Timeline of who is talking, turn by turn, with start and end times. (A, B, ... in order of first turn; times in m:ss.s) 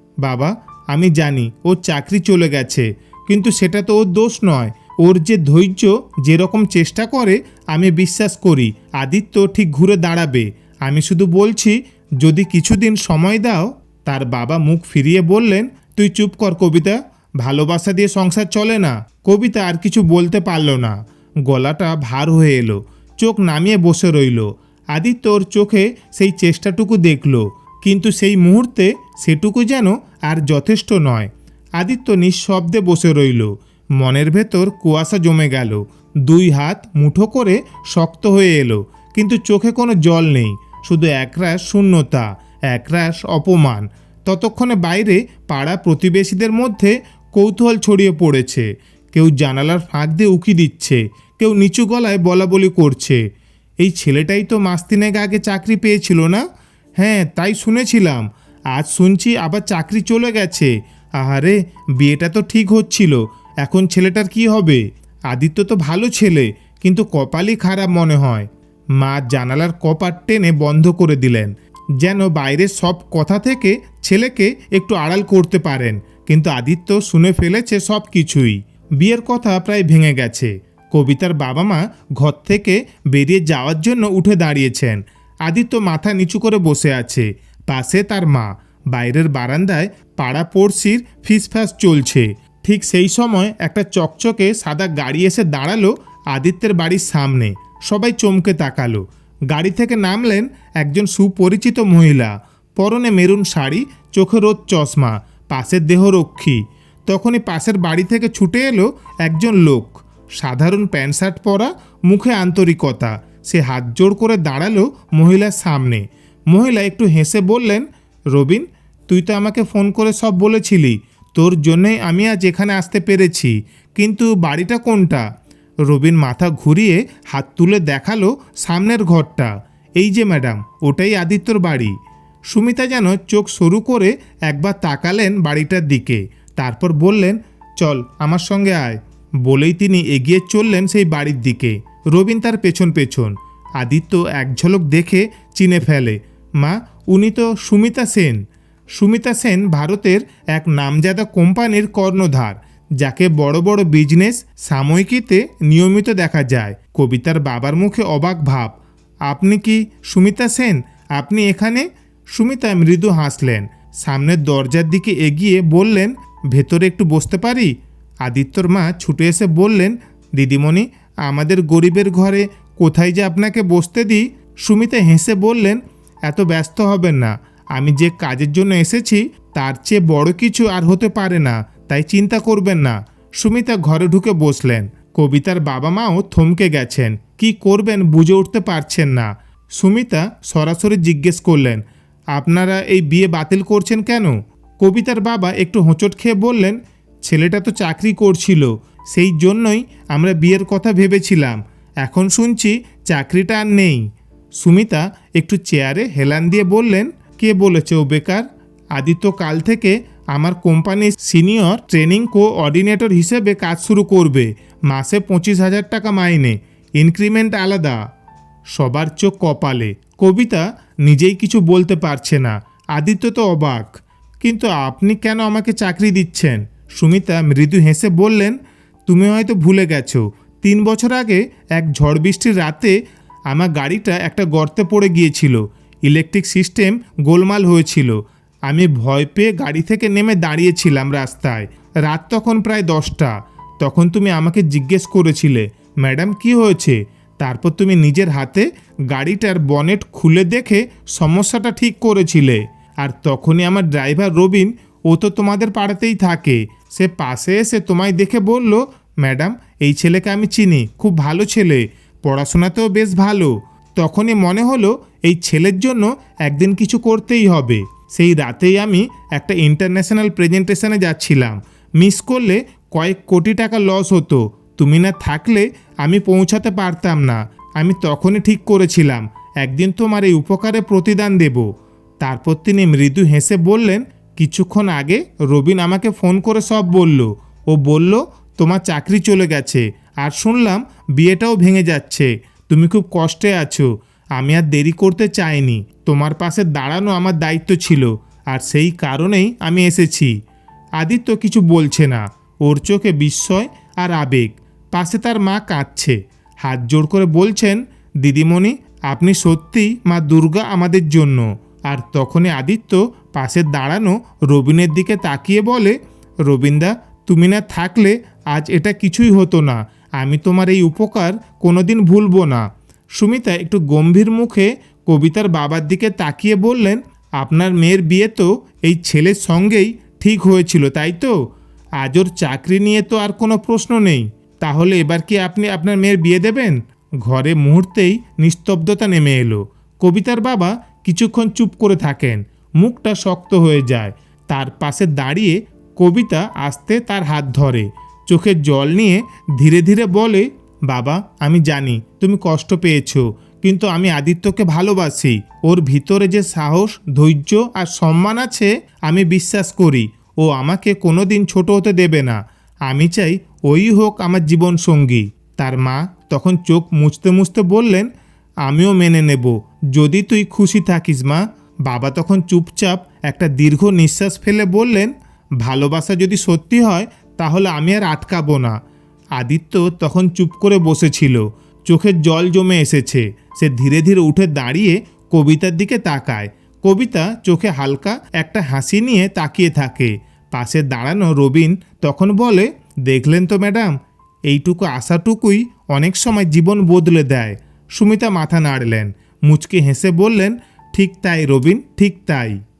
0:00.2-0:53.2 A
0:53.8-0:56.4 A
0:57.0-2:05.2 A
2:05.9-2:11.9 A
2:12.5-2:28.4 A
2:28.9-3:11.8 A
3:12.3-3:38.0 A
3:38.7-3:53.0 A
3:53.5-4:41.7 A
4:42.2-5:00.3 A
5:01.0-5:31.4 A
5:32.0-6:08.1 A
6:08.6-6:18.8 A
6:19.4-6:34.0 A
6:34.5-6:42.6 A